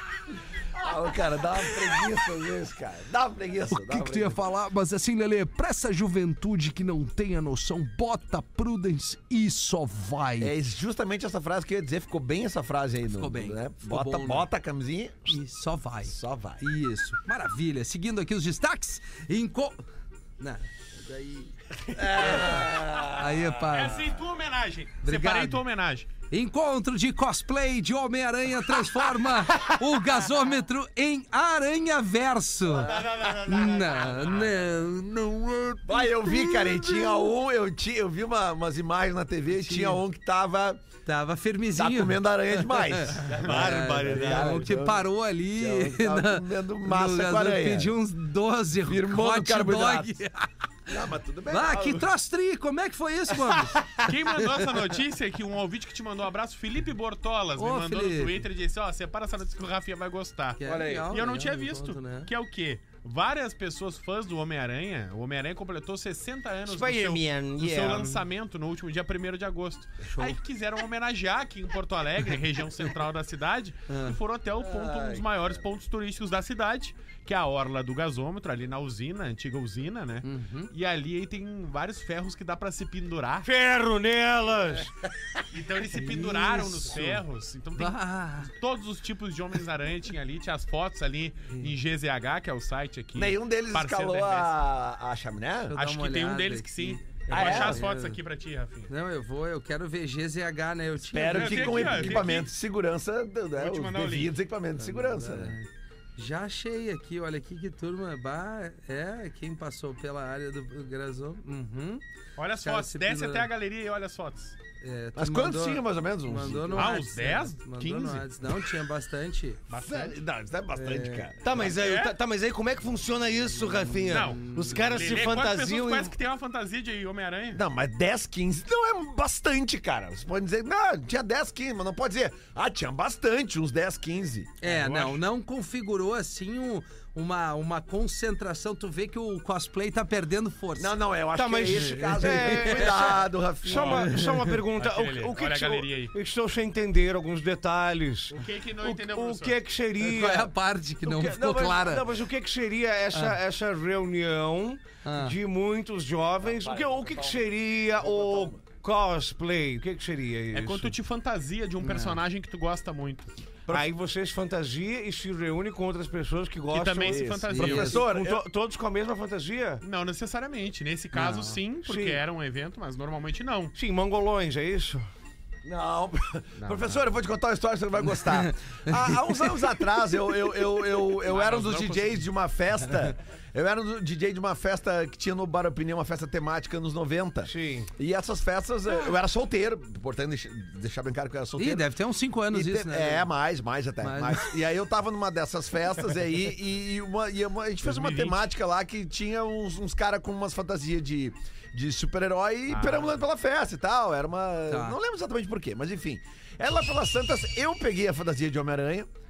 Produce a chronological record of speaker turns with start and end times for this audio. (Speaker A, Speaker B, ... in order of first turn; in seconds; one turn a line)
Speaker A: 0.7-4.4
Speaker B: 3.7-10.5
Speaker A: 10.4-15.4
Speaker B: 13.1-14.5
Speaker B: 15.3-19.8
Speaker A: 16.1-16.6
Speaker B: 20.4-24.1
Speaker A: 21.9-23.6
Speaker C: 23.7-26.1
Speaker B: 25.0-25.6
Speaker B: 26.3-32.9
Speaker C: 32.8-34.5
Speaker B: 33.5-37.3
Speaker A: 35.9-40.8
Speaker B: 39.5-40.0
Speaker B: 41.0-50.5
Speaker A: 41.8-47.9
Speaker D: 43.3-44.6
Speaker C: 43.4-43.7
Speaker A: 48.9-50.2
Speaker A: 50.9-52.1
Speaker B: 51.5-54.6
Speaker C: 54.0-83.5
Speaker B: 57.6-58.4
Speaker B: 60.6-62.3
Speaker A: 60.7-61.1
Speaker D: 60.7-61.0
Speaker D: 66.7-68.2
Speaker B: 70.0-70.4
Speaker B: 73.9-74.2
Speaker A: 74.6-75.7
Speaker B: 80.2-80.7
Speaker D: 83.4-84.9
Speaker C: 85.5-94.6
Speaker B: 86.0-87.2
Speaker B: 87.8-88.5
Speaker A: 93.2-95.8
Speaker B: 95.7-98.2
Speaker C: 95.8-98.9
Speaker A: 97.3-97.9
Speaker B: 98.9-102.2
Speaker A: 101.0-105.6
Speaker C: 101.3-102.5
Speaker C: 103.6-104.3
Speaker B: 104.8-112.0
Speaker C: 112.4-114.6
Speaker B: 112.6-113.5
Speaker B: 114.8-119.6
Speaker A: 115.2-117.0
Speaker C: 116.8-118.3
Speaker C: 119.7-120.2
Speaker A: 119.8-121.7
Speaker B: 120.7-121.3
Speaker D: 121.4-126.1
Speaker C: 121.5-122.2
Speaker B: 123.9-125.0
Speaker C: 124.1-127.6
Speaker A: 127.5-134.5
Speaker B: 134.6-140.9
Speaker C: 134.6-135.2
Speaker A: 140.8-144.1
Speaker D: 141.3-150.5
Speaker B: 141.7-142.9
Speaker C: 143.7-144.1
Speaker B: 144.1-144.5
Speaker C: 144.8-146.1
Speaker C: 148.3-149.6
Speaker B: 150.0-152.1
Speaker D: 151.1-160.9
Speaker B: 155.0-155.4
Speaker A: 156.4-158.6
Speaker C: 160.5-163.3
Speaker B: 161.8-162.2
Speaker D: 163.7-169.8
Speaker C: 166.7-168.0
Speaker A: 167.0-168.4
Speaker B: 167.5-168.0
Speaker C: 169.8-173.7
Speaker B: 171.2-171.6
Speaker D: 171.8-172.2
Speaker D: 173.8-175.1
Speaker A: 175.6-191.9
Speaker B: 178.4-179.7
Speaker C: 181.3-182.2
Speaker D: 187.4-187.9
Speaker B: 191.6-193.3
Speaker A: 192.5-209.1
Speaker B: 194.0-194.5
Speaker C: 197.8-198.4
Speaker C: 202.7-203.2
Speaker B: 204.7-205.0